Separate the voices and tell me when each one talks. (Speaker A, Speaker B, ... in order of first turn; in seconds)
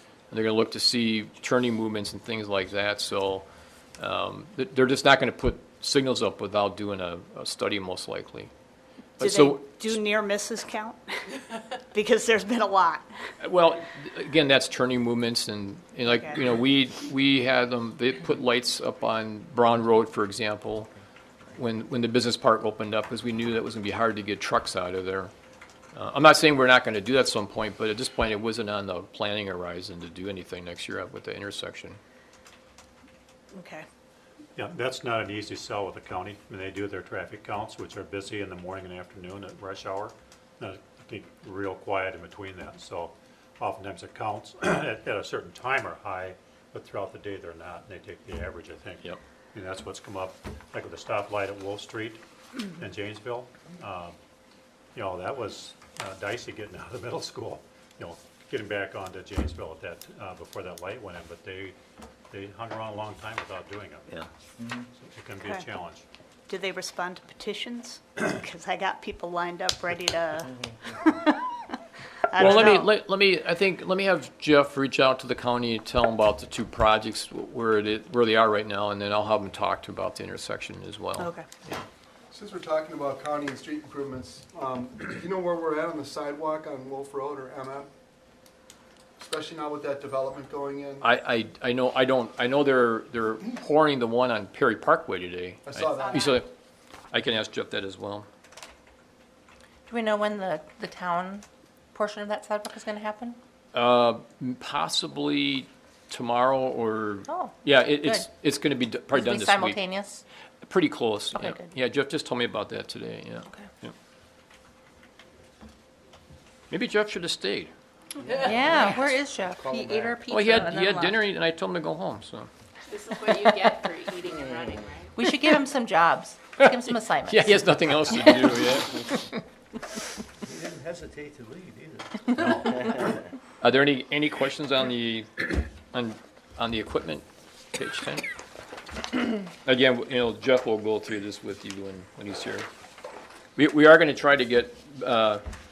Speaker A: 0.3-3.5, 4.0-8.5, 9.2-10.0, 13.4-20.9, 21.5-25.3, 25.9-32.0, 72.3-81.8, 91.0-96.5, 97.1-98.3, 103.7-109.8, 110.6-113.9, 116.7-117.7, 120.3-122.5, 127.2-129.4, 132.4-132.9, 133.6-138.2, 139.5-142.7, 143.6-145.4
Speaker B: 9.2-11.2, 11.9-13.1, 16.1-16.3, 33.5-33.8, 66.5-71.5, 72.3-72.9, 81.2-81.5
Speaker C: 34.5-54.1, 54.9-61.8, 62.3-64.2, 65.0-66.0
Speaker D: 64.6-64.9, 70.6-71.0, 130.4-133.1
Speaker E: 82.3-87.9, 89.2-91.0, 95.6-96.2, 118.2-120.2
Speaker F: 96.0-96.3, 99.9-103.4, 107.3-108.3, 109.1-110.2, 118.3-121.2, 125.1-128.5
Speaker G: 122.9-125.1